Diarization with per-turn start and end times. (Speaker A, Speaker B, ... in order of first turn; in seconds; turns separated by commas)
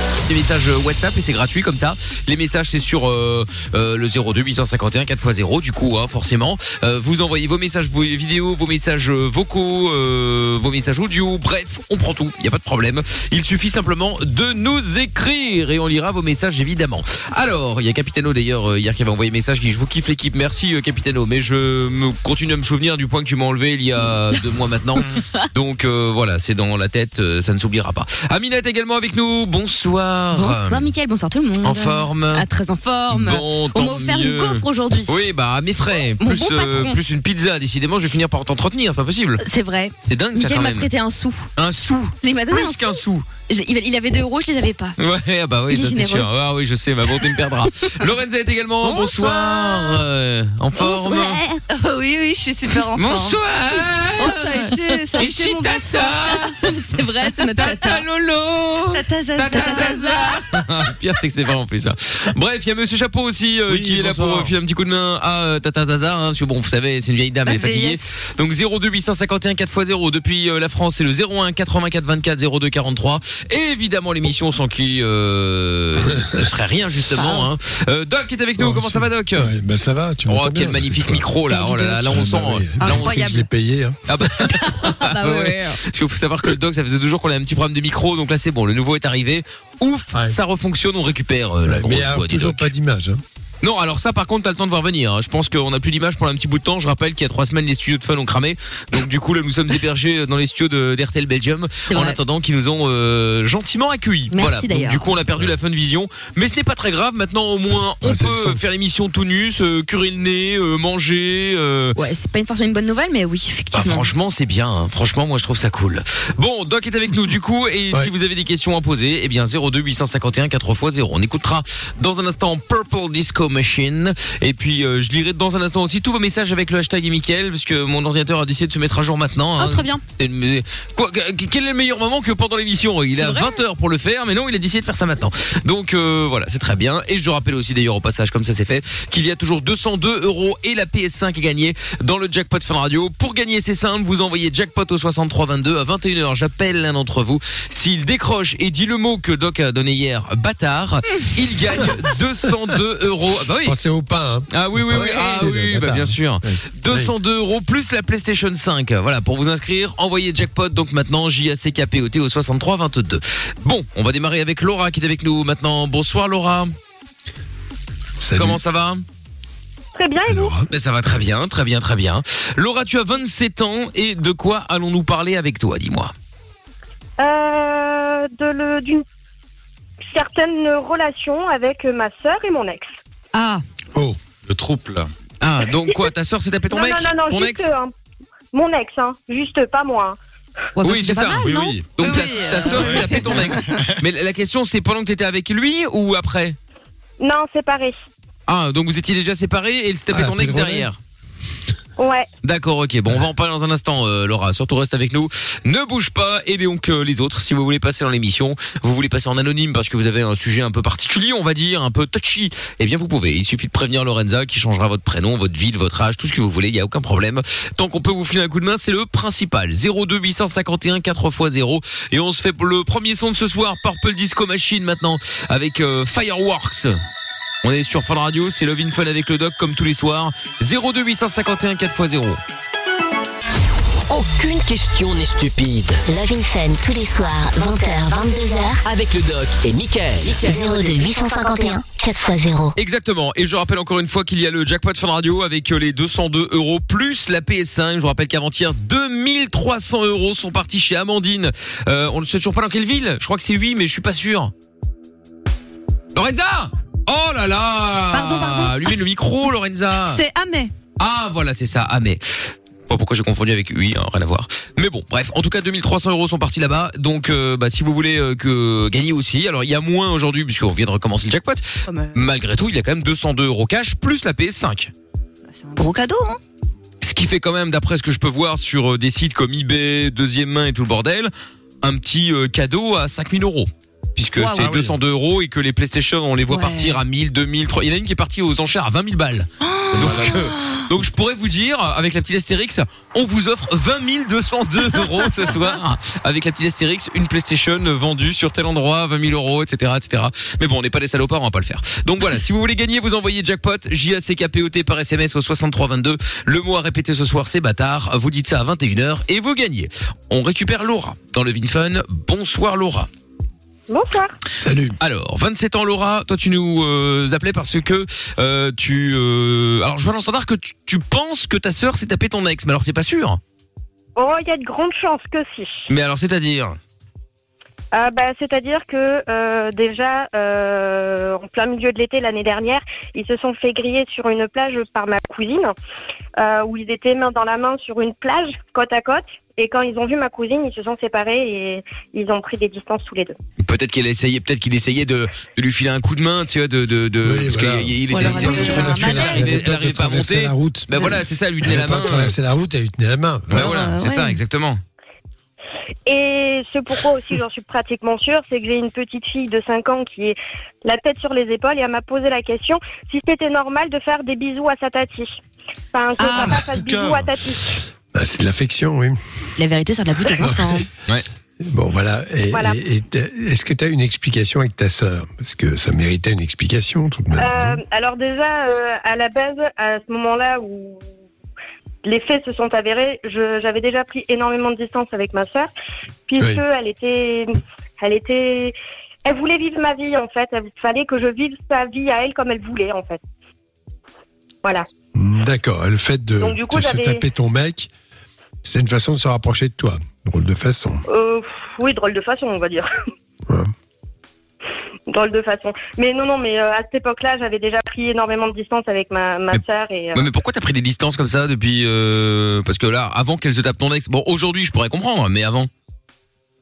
Speaker A: 0.3-30.9, Speaker B: 30.3-35.3, Speaker A: 31.6-32.4, Speaker A: 33.1-39.4, Speaker B: 36.2-37.0, Speaker B: 39.4-41.5, Speaker A: 40.0-40.9, Speaker A: 41.5-43.2, Speaker B: 42.2-45.0, Speaker A: 45.0-51.4, Speaker B: 45.7-46.3, Speaker B: 47.3-48.0, Speaker B: 48.8-49.7, Speaker C: 49.0-49.4, Speaker B: 50.8-51.6, Speaker C: 51.7-53.4, Speaker A: 52.9-56.6, Speaker C: 54.1-56.5, Speaker B: 56.3-58.0, Speaker A: 57.5-79.5, Speaker C: 58.9-60.5, Speaker D: 63.7-64.5, Speaker C: 67.5-68.0, Speaker E: 76.0-76.5, Speaker C: 77.2-77.5, Speaker E: 78.6-84.0, Speaker A: 80.2-83.4, Speaker C: 82.8-83.4, Speaker A: 84.1-92.7, Speaker B: 84.4-85.8, Speaker E: 90.1-90.4, Speaker E: 91.6-93.2, Speaker A: 93.6-111.9, Speaker B: 101.9-102.2, Speaker B: 104.3-105.0, Speaker E: 108.0-108.6, Speaker B: 111.9-114.1, Speaker A: 113.7-153.8, Speaker B: 129.6-130.0, Speaker B: 133.2-133.6, Speaker E: 153.6-157.1, Speaker A: 154.5-166.7, Speaker B: 154.9-155.3, Speaker E: 168.2-168.6, Speaker A: 168.3-169.0, Speaker F: 169.9-170.6, Speaker E: 170.3-170.7, Speaker A: 170.7-176.1, Speaker F: 177.2-179.0, Speaker F: 180.1-182.9, Speaker B: 183.3-183.6, Speaker D: 184.5-185.1, Speaker A: 185.4-187.7, Speaker F: 186.7-187.9, Speaker F: 188.5-190.2, Speaker B: 190.8-191.8, Speaker A: 190.8-196.6, Speaker D: 191.4-192.0, Speaker C: 192.0-193.8, Speaker F: 197.2-197.9, Speaker A: 198.5-201.0, Speaker E: 200.1-200.9, Speaker F: 202.0-202.3, Speaker A: 202.4-227.0, Speaker A: 227.6-232.4, Speaker G: 234.1-236.0, Speaker H: 236.1-238.8, Speaker G: 238.8-241.0, Speaker H: 240.4-242.8, Speaker A: 242.8-254.5, Speaker A: 256.1-260.2, Speaker C: 258.1-259.0, Speaker C: 260.0-260.7, Speaker A: 261.0-274.9, Speaker C: 271.9-272.2, Speaker C: 275.4-276.4, Speaker A: 277.0-281.3, Speaker A: 281.8-313.1, Speaker C: 284.4-284.6, Speaker D: 284.6-284.9, Speaker C: 286.5-287.0, Speaker C: 289.6-290.9, Speaker D: 289.9-290.3, Speaker F: 313.9-314.3, Speaker E: 314.6-314.9, Speaker A: 315.0-323.4, Speaker F: 324.1-325.9, Speaker A: 325.9-326.8, Speaker F: 327.9-335.7, Speaker F: 336.4-343.4, Speaker A: 343.6-352.3, Speaker E: 347.2-353.7, Speaker C: 348.1-349.6, Speaker A: 353.5-354.8, Speaker C: 353.5-354.4, Speaker F: 356.1-365.4, Speaker F: 365.9-367.8, Speaker B: 366.2-366.6, Speaker D: 366.4-367.3, Speaker E: 368.1-369.2, Speaker B: 369.6-370.9, Speaker E: 370.4-370.8, Speaker E: 371.6-377.8, Speaker F: 372.5-372.8, Speaker F: 377.4-381.1, Speaker F: 382.0-385.7, Speaker F: 386.3-393.2, Speaker E: 395.1-397.9, Speaker F: 396.4-397.2, Speaker E: 398.6-401.0, Speaker F: 401.1-402.9, Speaker E: 403.5-403.7, Speaker F: 405.1-410.3, Speaker A: 410.1-415.7